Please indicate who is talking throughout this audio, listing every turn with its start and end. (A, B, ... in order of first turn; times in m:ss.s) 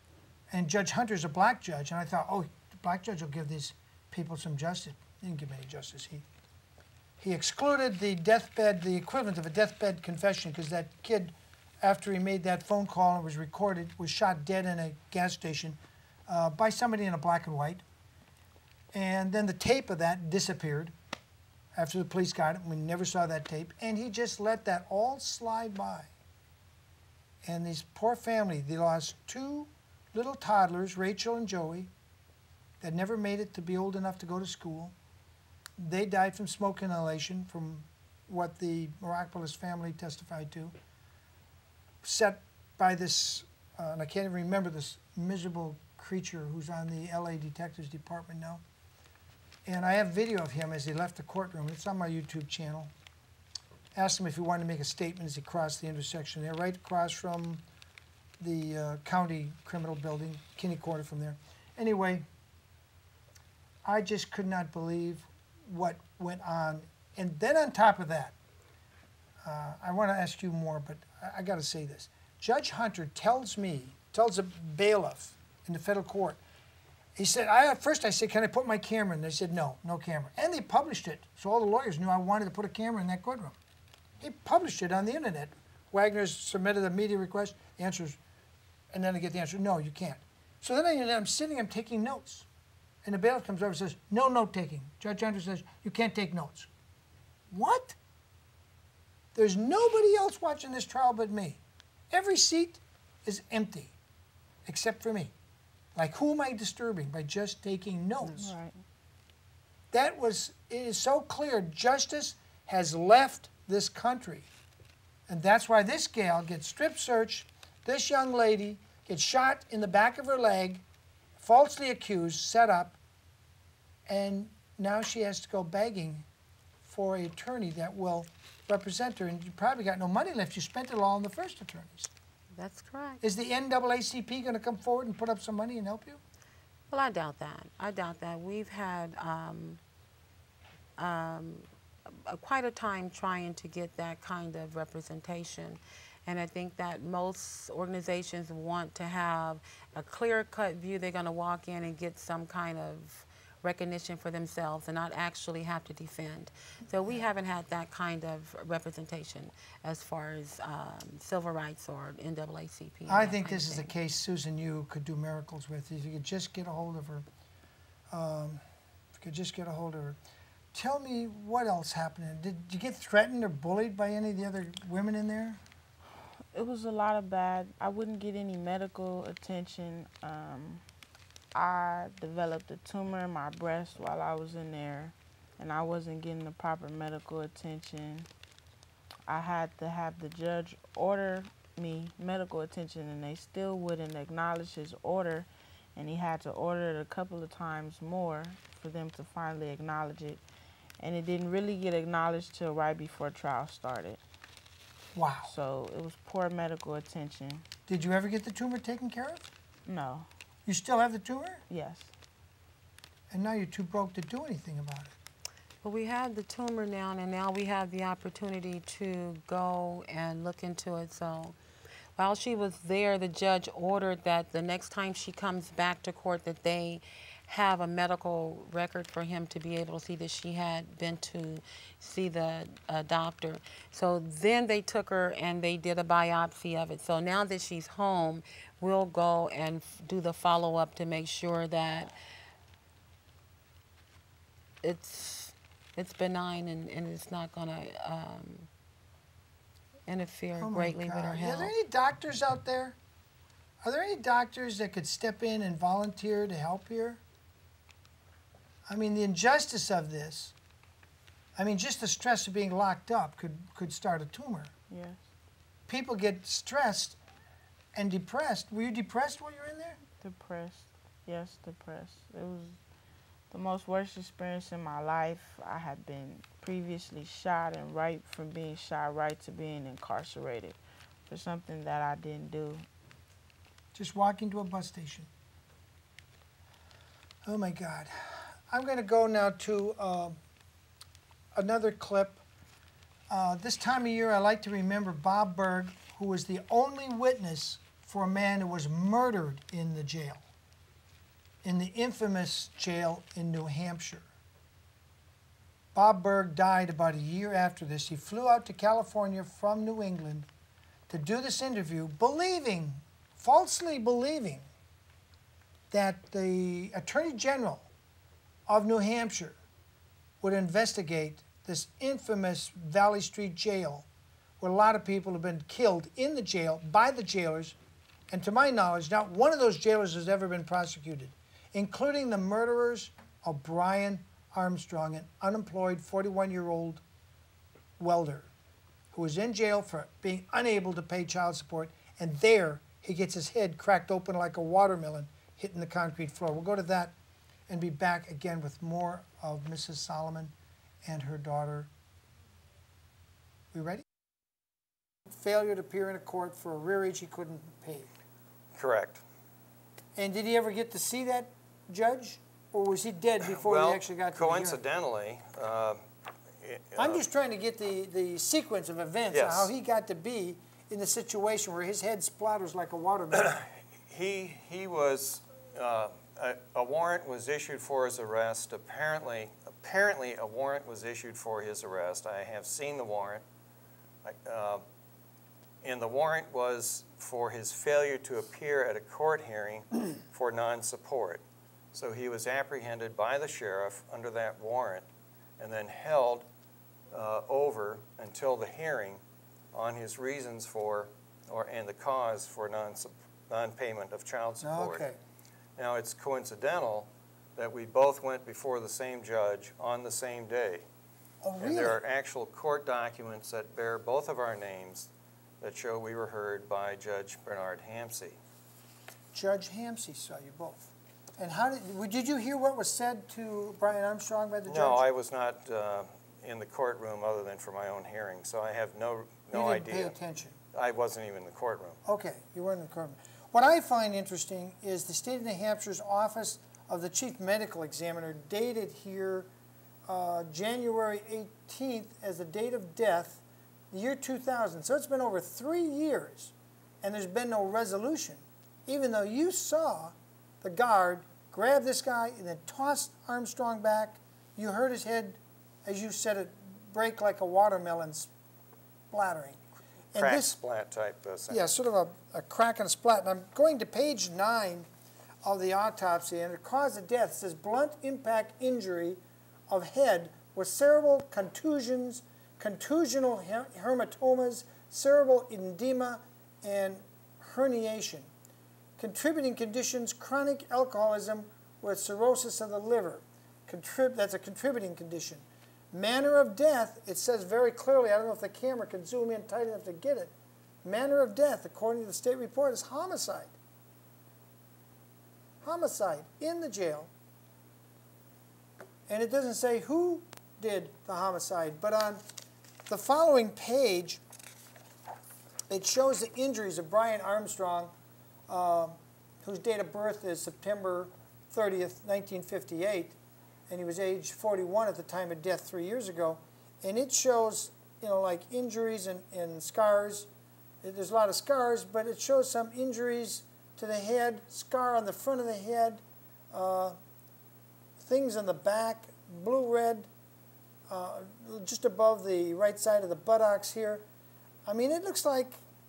0:00.5-0:06.2 A
0:07.2-0:17.8 A
0:18.9-0:20.9 A
0:21.7-0:26.1 A
0:27.4-0:31.9 A
0:32.8-0:34.9 A
0:35.8-0:40.7 A
0:42.0-0:48.6 A
0:49.6-0:52.9 A
0:53.9-0:57.6 A
0:58.4-1:02.2 A
1:03.8-1:08.4 A
1:09.4-1:16.4 A
1:17.2-1:23.6 A
1:24.2-1:28.2 A
1:28.9-1:32.4 A
1:33.0-1:36.7 A
1:37.5-1:38.0 A
1:39.4-1:43.9 A
1:44.6-1:45.3 A
1:45.9-1:48.5 A
1:48.4-1:48.8 B
1:49.9-1:54.5 A
1:55.3-2:00.8 A
2:01.4-2:03.0 A
2:04.1-2:06.2 A
2:06.9-2:12.1 A
2:12.5-2:13.2 C
2:13.2-2:16.2 A
2:16.9-2:19.8 C
2:21.0-2:43.9 C
2:43.1-2:47.2 A
2:48.1-2:48.6 A
2:49.2-2:50.2 A
2:50.7-2:55.6 A
2:56.5-3:00.8 B
3:01.5-3:08.3 B
3:09.3-3:20.4 B
3:21.0-3:24.2 B
3:25.1-3:25.5 A
3:25.5-3:27.6 B
3:27.9-3:29.5 A
3:29.9-3:30.3 B
3:30.6-3:31.6 A
3:31.7-3:32.1 B
3:33.3-3:35.1 A
3:35.8-3:41.6 C
3:42.2-4:02.1 C
4:04.8-4:08.7 C
4:10.1-4:11.7 C
4:10.6-4:13.0 A
4:13.8-4:17.2 A
4:18.9-4:20.5 A
4:21.6-4:24.7 A
4:24.9-4:25.2 B
4:25.9-4:27.2 A
4:27.9-4:30.0 A
4:30.2-4:32.8 B
4:33.5-4:42.9 B
4:43.9-4:45.3 A
4:47.4-4:50.4 A
4:51.5-4:52.4 A
4:53.3-5:00.4 A
5:01.6-5:04.2 A
5:05.9-5:10.5 A
5:11.1-5:14.6 A
5:15.9-5:17.9 A
5:18.7-5:19.6 A
5:20.4-5:24.0 A
5:24.6-5:27.8 A
5:28.3-5:37.0 A
5:38.0-5:38.5 A
5:39.1-5:47.1 A
5:47.7-5:50.5 A
5:51.0-5:51.9 A
5:53.7-5:54.0 A
5:55.3-5:58.1 A
5:58.7-5:59.2 D
6:00.2-6:04.8 A
6:03.5-6:06.0 D
6:06.6-6:07.2 D
6:07.0-6:13.6 A
6:09.3-6:09.7 D
6:13.3-6:23.4 D
6:24.2-6:24.8 D
6:25.8-6:31.4 D
6:31.9-6:35.0 D
6:35.6-6:36.4 D
6:37.1-6:39.2 D
6:39.7-6:45.0 D
6:44.6-6:45.2 A
6:45.8-6:50.8 D
6:51.4-6:52.0 A
6:51.6-6:55.1 D
6:55.6-6:58.4 D
6:59.3-7:05.0 A
7:04.7-7:10.1 D
7:09.5-7:10.6 A
7:10.7-7:12.0 D
7:12.0-7:19.5 A
7:20.1-7:38.3 A
7:39.1-7:39.6 A
7:40.1-7:40.6 A
7:40.2-7:41.6 D
7:41.5-7:44.9 A
7:45.4-7:58.3 A
7:59.0-8:10.3 A
8:10.8-8:13.5 A
8:15.6-8:17.1 A
8:19.1-8:22.2 A
8:22.9-8:24.2 A
8:25.7-8:27.9 A
8:28.5-8:33.2 A
8:33.7-8:40.3 A
8:40.8-8:46.0 A
8:46.5-8:47.0 A
8:48.0-8:50.1 A
8:50.9-8:54.0 A
8:54.6-8:55.6 A